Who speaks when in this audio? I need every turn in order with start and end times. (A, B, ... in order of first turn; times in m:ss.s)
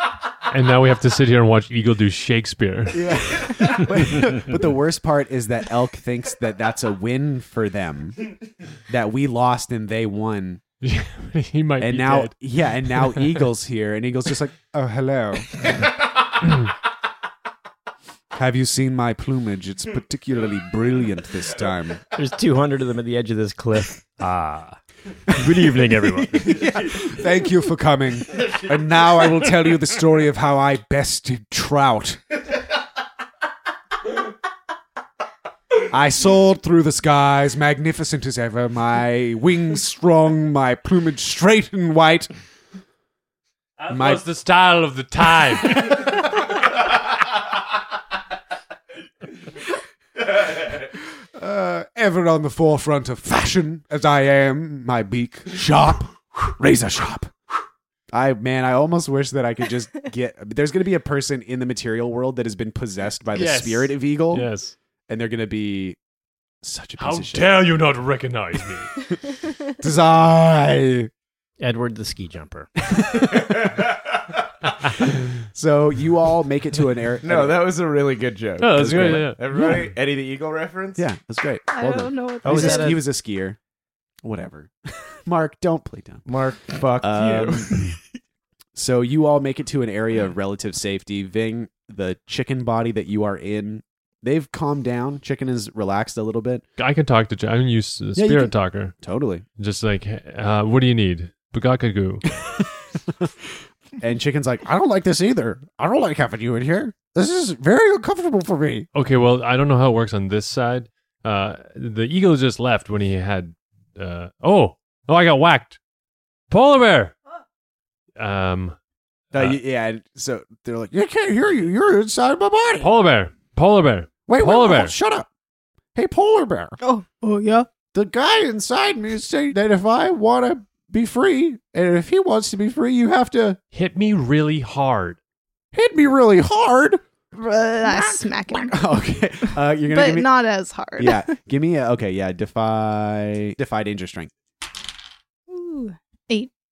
0:00.5-0:03.8 A
0:02.9-0:08.3 B
0:08.9-0:10.6 B
0:10.8-0:13.5 A
0:11.8-0:15.9 B
0:18.3-0:22.0 B
0:22.1-0:26.7 C
0:26.4-0:32.2 B
0:35.8-0:42.3 B
0:43.8-0:46.1 A
0:43.9-0:44.2 B
0:50.3-0:57.3 B
0:58.1-1:04.5 B
1:03.3-1:04.7 A
1:05.1-1:06.0 B
1:06.6-1:07.5 B
1:07.0-1:09.0 A
1:09.8-1:11.1 B
1:11.6-1:12.7 C
1:12.9-1:13.7 B
1:13.4-1:13.8 D
1:15.4-1:17.6 B
1:17.2-1:21.0 D
1:18.6-1:19.4 A
1:18.8-1:19.3 B
1:21.0-1:23.6 B
1:21.7-1:23.0 E
1:22.4-1:23.0 C
1:24.2-1:27.9 B
1:26.2-1:28.0 D
1:28.7-1:36.6 B
1:36.8-1:38.9 A
1:38.1-1:39.4 B
1:39.6-1:42.2 A
1:42.4-1:48.9 B
1:48.9-1:55.8 A
1:56.5-1:57.1 A
1:58.2-1:58.8 A
1:59.3-1:59.6 A
1:59.3-2:02.9 B
2:02.8-2:04.9 A
2:04.3-2:05.3 B
2:05.9-2:06.8 B
2:06.8-2:07.7 E
2:07.9-2:13.6 B
2:13.7-2:15.2 A
2:15.7-2:17.0 B
2:17.3-2:18.8 E
2:17.8-2:20.3 B
2:19.9-2:21.3 E
2:21.0-2:24.3 B
2:25.5-2:26.5 E